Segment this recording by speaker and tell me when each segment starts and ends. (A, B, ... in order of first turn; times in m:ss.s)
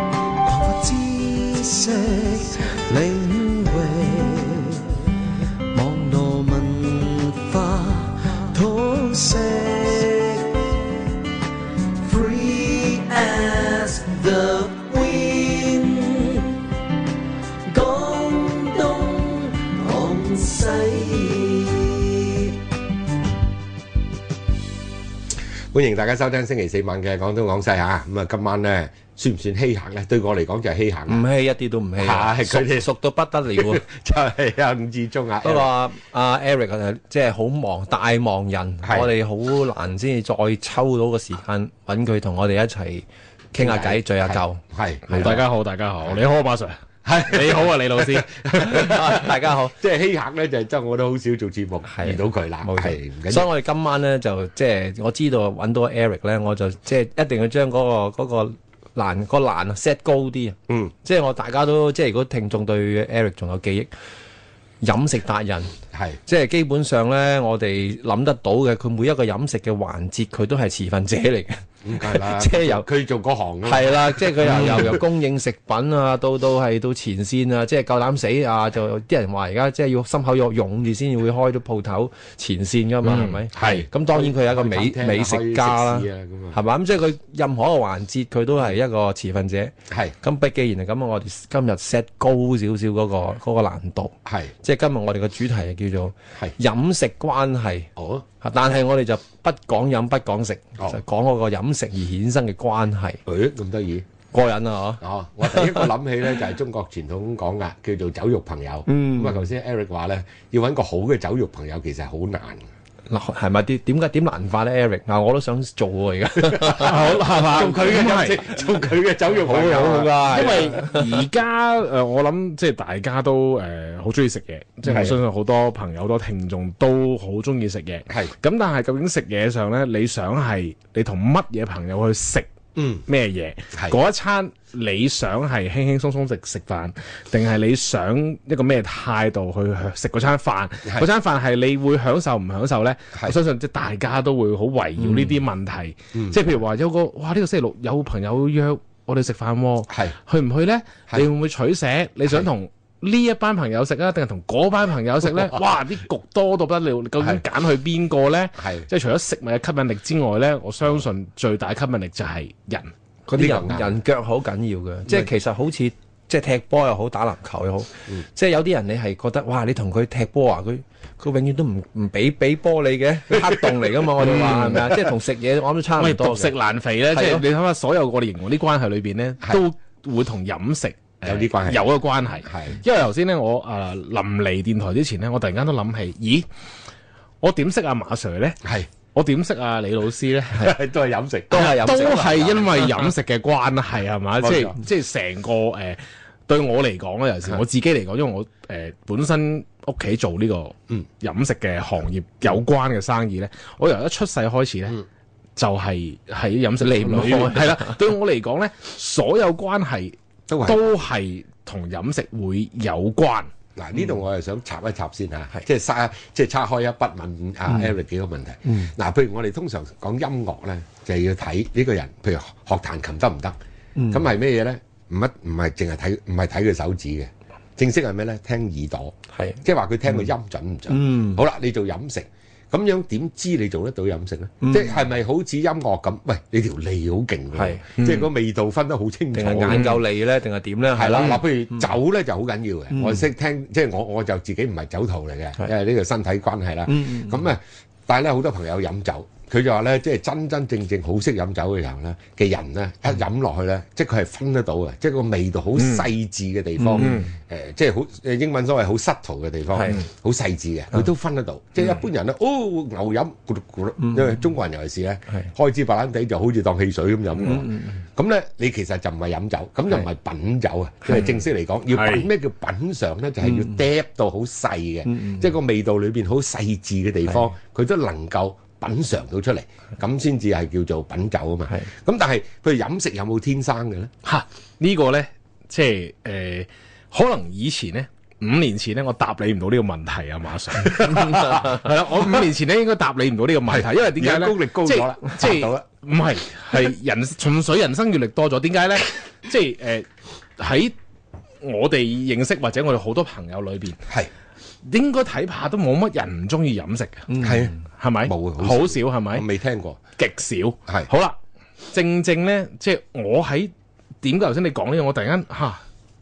0:00.4-0:10.9 A
0:12.0-0:16.6 A
0:17.7-0:22.6 A
0:25.7-0:31.2 B
0:31.1-0:33.8 C
0:32.0-0:32.9 B
0:33.5-0:35.7 B
0:35.4-0:45.4 C
0:38.8-0:39.1 B
0:43.6-0:45.4 B
0:45.1-0:49.0 D
0:47.0-0:53.5 B
0:48.7-0:49.8 C
0:51.9-1:03.9 C
1:04.8-1:05.7 C
1:05.9-1:06.2 B
1:06.2-1:12.8 C
1:11.8-1:15.0 B
1:13.6-1:37.9 C
1:23.1-1:23.7 D
1:23.5-1:26.6 B
1:29.9-1:30.1 B
1:34.2-1:34.5 B
1:38.0-1:38.2 B
1:38.4-1:43.2 C
1:43.2-1:44.0 B
1:44.3-1:45.9 C
1:45.0-1:52.6 B
1:48.9-1:49.4 C
1:53.1-1:57.1 C
1:56.4-2:00.8 B
1:56.7-1:58.6 D
1:59.4-2:01.2 C
1:59.8-2:12.5 D
2:04.8-2:05.2 B
2:12.8-2:13.0 B
2:13.1-2:42.9 D
2:29.9-2:30.1 B
2:38.6-2:38.9 B
2:43.3-2:56.5 C
2:43.3-2:44.0 B
2:54.2-2:54.9 D
2:54.3-2:54.9 B
2:56.0-3:06.5 D
2:57.1-2:57.4 C
3:01.2-3:01.9 B
3:02.4-3:02.8 B
3:07.4-3:08.6 D
3:08.6-3:08.9 B
3:09.1-3:10.8 D
3:10.6-3:12.9 B
3:11.5-3:12.6 C
3:11.5-3:25.0 D
3:14.4-3:14.8 B
3:25.6-3:33.5 D
3:26.8-3:28.0 C
3:30.5-3:30.8 B
3:33.8-3:43.6 B
3:44.0-3:44.2 C
3:44.1-4:00.0 B
3:49.3-3:49.6 C
3:50.9-3:51.4 C
3:54.6-3:54.9 C
3:57.5-3:57.8 C
3:58.0-3:58.3 D
3:59.3-4:01.4 C
3:59.7-4:00.0 D
4:00.9-4:44.1 B
4:02.9-4:03.2 C
4:06.9-4:07.4 C
4:15.8-4:16.0 D
4:16.8-4:17.2 C
4:17.0-4:17.3 D
4:27.4-4:28.0 C
4:35.1-4:35.4 C
4:44.2-5:00.1 D
4:53.7-4:55.8 B
5:00.6-5:00.9 D
5:01.6-5:04.0 D
5:04.8-5:07.4 D
5:07.3-5:10.0 B
5:08.0-5:09.4 D
5:10.2-5:11.4 D
5:11.9-5:15.8 D